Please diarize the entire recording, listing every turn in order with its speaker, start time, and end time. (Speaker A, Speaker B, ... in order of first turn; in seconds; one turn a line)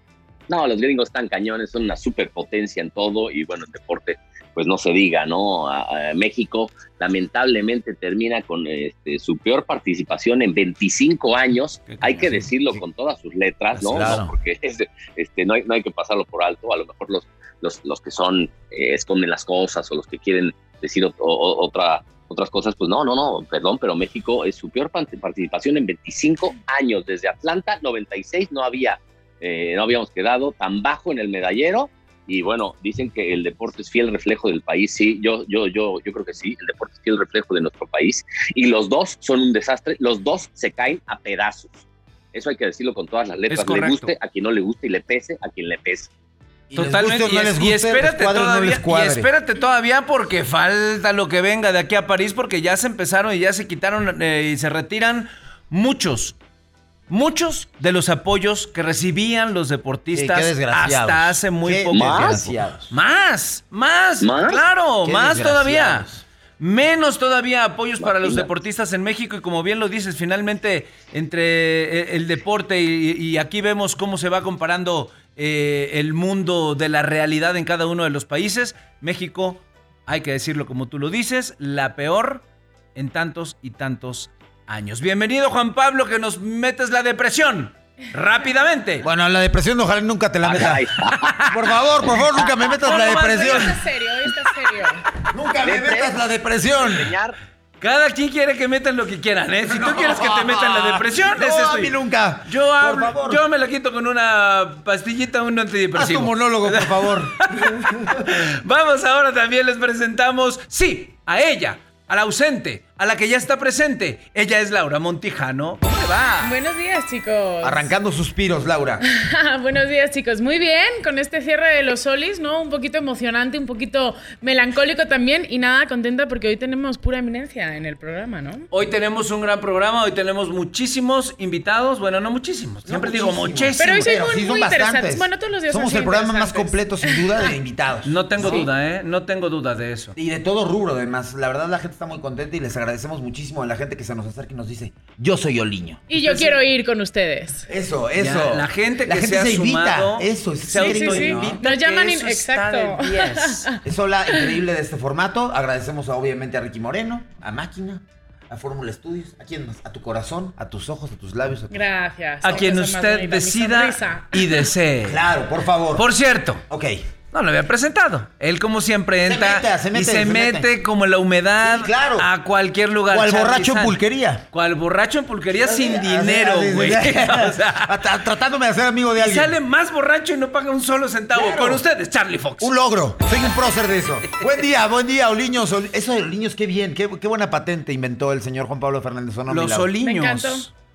Speaker A: 0.5-46.1
Speaker B: 12.0-12.8
Speaker B: 13.8-14.3
Speaker C: 43.5-44.1
Speaker B: 46.7-49.3
Speaker C: 46.8-56.4
Speaker C: 57.1-66.1
Speaker B: 60.1-62.9
Speaker A: 61.9-62.4
Speaker A: 64.2-64.6
Speaker B: 65.0-66.2
Speaker C: 66.6-89.0
Speaker A: 68.0-68.5
Speaker B: 89.0-90.9
Speaker A: 90.4-91.3
Speaker C: 91.1-91.5
Speaker B: 91.5-93.8
Speaker A: 92.4-92.7
Speaker C: 92.8-93.8
Speaker D: 92.9-95.0
Speaker B: 95.3-97.1
Speaker A: 95.6-96.2
Speaker A: 96.8-97.4
Speaker C: 97.8-102.0
Speaker B: 99.6-103.4
Speaker C: 102.5-116.5
Speaker B: 105.9-108.2
Speaker D: 116.4-117.9
Speaker B: 117.6-119.0
Speaker D: 119.1-128.7
Speaker C: 128.7-134.1
Speaker B: 132.9-138.7
Speaker D: 133.8-137.2
Speaker C: 138.1-140.2
Speaker D: 138.4-138.7
Speaker B: 140.2-146.0
Speaker D: 146.1-147.7
Speaker C: 146.1-146.6
Speaker B: 147.7-151.6
Speaker C: 148.2-153.7
Speaker D: 150.8-153.8
Speaker B: 153.8-161.9
Speaker D: 161.7-164.7
Speaker C: 162.4-165.2
Speaker B: 165.1-166.1
Speaker C: 166.0-166.6
Speaker B: 166.7-167.1
Speaker C: 167.3-174.0
Speaker B: 169.2-170.7
Speaker B: 171.6-172.3
Speaker B: 173.1-174.4
Speaker C: 174.5-177.9
Speaker B: 175.6-179.6
Speaker C: 179.2-182.7
Speaker B: 181.3-181.8
Speaker B: 182.6-189.9
Speaker C: 189.5-190.7
Speaker D: 190.0-190.7